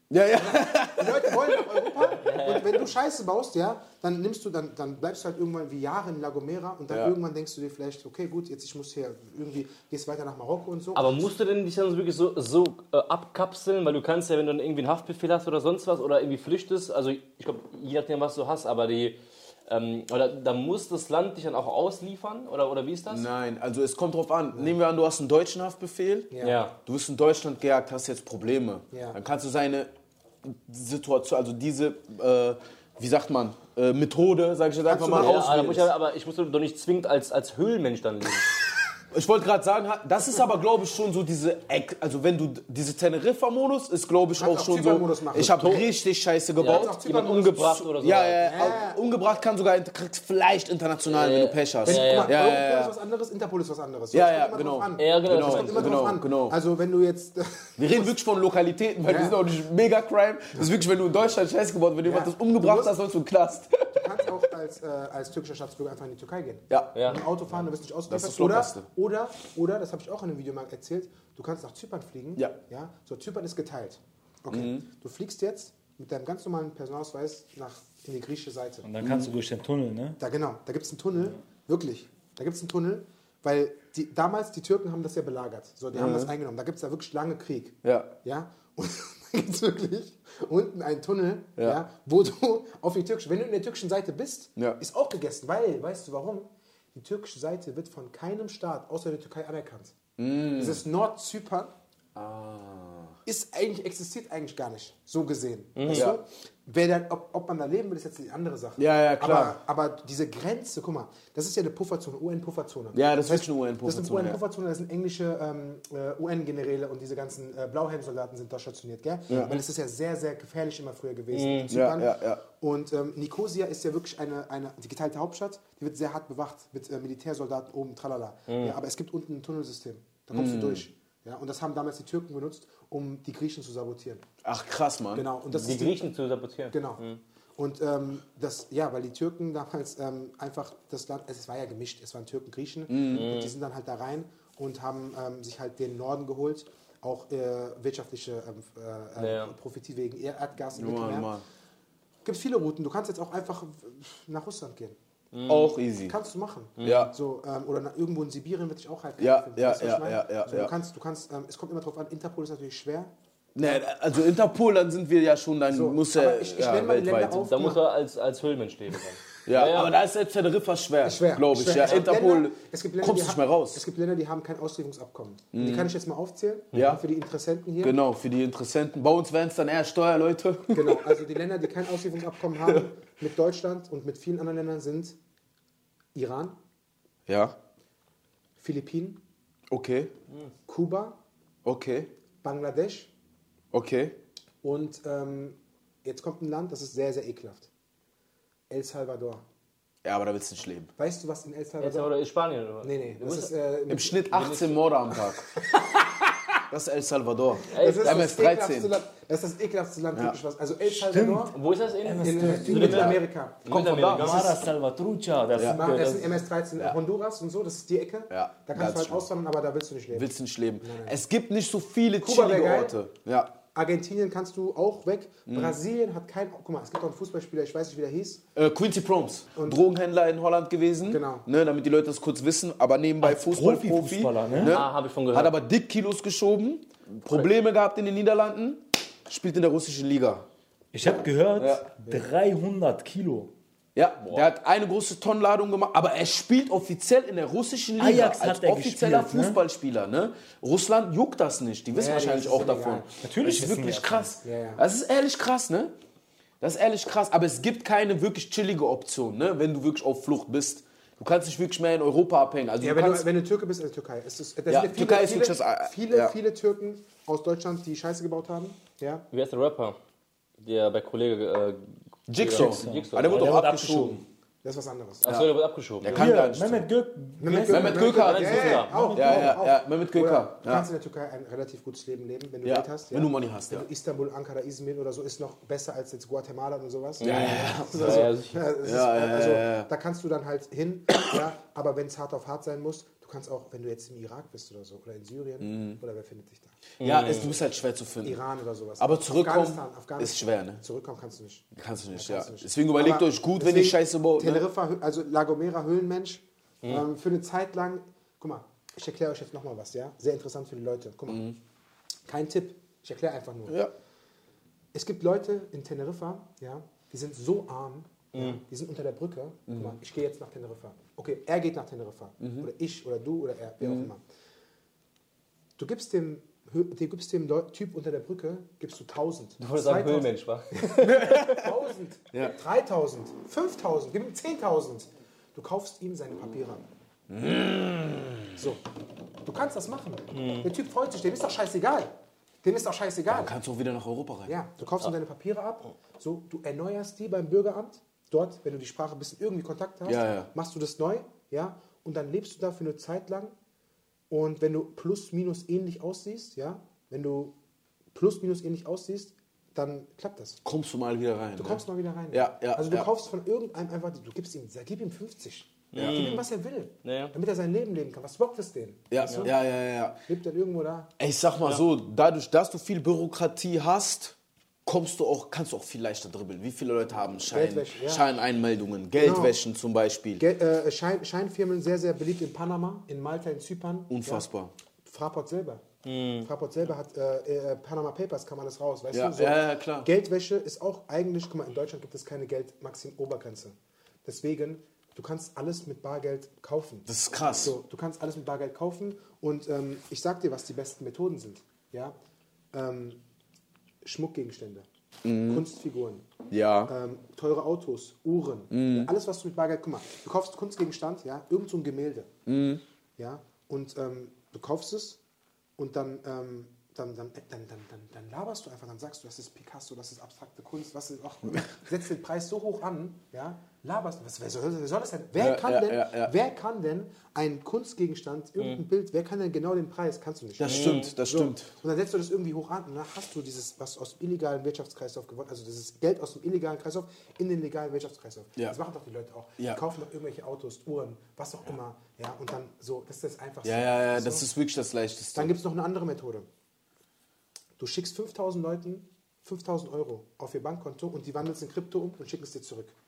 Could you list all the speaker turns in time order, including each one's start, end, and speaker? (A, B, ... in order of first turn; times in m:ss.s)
0:00.1-0:01.7 A
0:00.3-0:11.3 B
0:02.0-0:02.9 C
0:10.9-0:23.2 C
0:23.1-0:26.3 A
0:26.3-0:26.6 B
0:26.4-0:26.7 C
0:26.8-0:29.9 A
0:30.4-0:35.9 A
0:34.8-0:35.5 B
0:35.1-0:38.5 C
0:39.1-0:52.9 A
0:44.4-0:45.8 B
0:45.6-0:45.8 C
0:46.6-0:48.4 C
0:46.6-0:47.6 B
0:48.4-0:49.0 B
0:51.1-0:52.3 C
0:51.8-0:58.1 B
0:54.1-0:56.6 A
0:55.0-0:56.1 C
0:57.8-1:04.2 A
0:59.0-0:59.4 B
1:02.0-1:02.9 B
1:03.9-1:18.9 B
1:06.7-1:07.0 A
1:06.9-1:07.2 C
1:08.1-1:08.8 A
1:14.5-1:14.8 A
1:18.8-1:20.2 D
1:19.0-1:19.3 A
1:20.2-1:39.9 B
1:25.9-1:26.3 A
1:27.8-1:28.1 A
1:40.2-1:40.8 A
1:40.6-1:41.7 B
1:42.1-1:43.2 A
1:43.2-2:14.2 B
1:45.8-1:46.1 C
1:45.9-1:46.2 A
1:48.8-1:49.6 A
1:52.9-1:54.4 A
1:59.3-1:59.5 A
2:01.3-2:01.7 C
2:01.7-2:02.4 A
2:08.5-2:08.8 C
2:10.3-2:10.8 A
2:14.4-2:15.2 A
2:15.1-2:16.0 B
2:15.5-2:17.2 C
2:16.7-2:17.0 B
2:17.6-2:31.3 B
2:22.9-2:23.3 A
2:23.1-2:23.5 C
2:29.2-2:29.5 C
2:30.7-2:31.4 A
2:32.2-2:35.0 B
2:35.3-2:35.7 C
2:35.5-2:36.2 A
2:36.0-2:43.8 B
2:36.8-2:37.1 C
2:36.8-2:37.1 A
2:39.2-2:40.7 A
2:43.5-2:47.4 A
2:45.7-2:47.8 B
2:47.4-2:49.9 C
2:49.4-2:53.8 A
2:51.0-2:58.0 B
2:55.5-2:55.9 A
2:56.7-2:57.0 A
2:57.8-3:01.2 A
3:00.7-3:05.2 B
3:02.6-3:02.8 A
3:06.1-3:06.6 B
3:07.3-3:07.6 A
3:08.6-3:09.2 B
3:09.7-3:10.1 A
3:10.7-3:11.2 B
3:11.6-3:12.1 A
3:12.4-3:13.1 B
3:13.7-3:14.2 A
3:14.6-3:17.7 B
3:18.7-3:19.4 B
3:20.0-3:20.9 A
3:21.0-3:22.1 B
3:21.8-3:23.5 C
3:22.8-3:24.6 B
3:23.9-3:25.6 A
3:24.3-3:24.7 C
3:26.7-3:28.9 A
3:27.7-3:28.3 C
3:27.7-3:31.5 B
3:30.8-3:33.1 D
3:31.5-3:34.5 C
3:32.2-3:34.5 B
3:32.8-3:33.1 A
3:33.6-3:34.4 A
3:34.1-3:36.3 D
3:35.5-3:35.9 A
3:35.6-3:40.3 B
3:38.3-3:39.2 A
3:40.1-3:43.5 A
3:40.8-3:41.2 B
3:42.2-3:43.0 B
3:43.7-3:48.4 B
3:45.5-3:45.8 A
3:48.5-4:00.4 A
3:49.5-3:49.8 B
3:51.1-3:51.4 B
3:53.2-3:54.8 D
3:54.6-3:55.5 C
4:00.9-4:03.5 D
4:01.6-4:01.9 A
4:02.0-4:02.2 B
4:03.9-4:15.9 A
4:08.0-4:09.6 D
4:11.9-4:13.1 B
4:13.2-4:14.3 D
4:14.4-4:14.8 B
4:16.6-4:23.3 A
4:22.8-4:29.2 B
4:24.7-4:26.3 A
4:29.3-4:30.0 C
4:30.6-4:33.5 C
4:32.3-4:34.2 A
4:32.5-4:34.2 D
4:34.6-4:35.2 B
4:35.2-4:36.3 C
4:35.2-4:36.8 A
4:36.1-4:39.6 D
4:37.4-4:56.8 B
4:37.7-4:40.8 A
4:38.2-4:39.1 C
4:42.6-4:43.8 A
4:47.2-4:48.6 C
4:47.2-4:49.9 A
4:55.6-4:56.0 A
4:57.0-4:58.4 A
4:57.0-4:57.5 C
4:58.2-5:11.4 B
4:59.0-5:00.8 A
5:01.7-5:04.6 A
5:11.3-5:11.6 A
5:12.3-5:13.8 B
5:13.7-5:13.9 A
5:14.9-5:24.2 B
5:19.7-5:19.9 A
5:22.4-5:22.7 A
5:23.8-5:24.1 A
5:25.8-5:36.8 B
5:29.6-5:30.8 C
5:31.0-5:31.7 A
5:37.3-5:38.5 A
5:38.6-5:38.8 B
5:39.4-5:43.5 B
5:40.3-5:40.7 C
5:43.3-5:44.6 A
5:44.5-5:53.5 B
5:50.0-5:50.5 A
5:54.3-5:57.6 B
5:58.1-6:00.6 B
6:00.6-6:03.1 A
6:01.6-6:09.5 B
6:05.9-6:06.5 C
6:05.9-6:06.2 A
6:07.0-6:07.3 C
6:09.1-6:10.2 A
6:10.3-6:11.1 B
6:11.2-6:20.4 A
6:17.5-6:18.2 B
6:19.2-6:19.6 B
6:20.4-6:24.4 B
6:24.1-6:24.7 A
6:25.0-6:25.8 B
6:26.0-6:26.5 C
6:26.4-6:37.1 B
6:29.1-6:30.1 A
6:37.0-6:37.8 A
6:37.6-6:42.1 B
6:42.7-6:43.2 B
6:44.0-6:44.8 B
6:45.2-6:45.6 A
6:45.5-6:46.2 B
6:46.5-6:46.9 A
6:46.9-6:52.3 B
6:48.7-6:49.1 A
6:52.5-6:52.8 A
6:53.2-6:55.2 B
6:55.8-7:24.4 B
7:05.4-7:06.3 A
7:10.6-7:11.7 A
7:10.6-7:11.1 C
7:23.6-7:25.5 A
7:25.3-7:26.5 B
7:27.8-7:32.9 B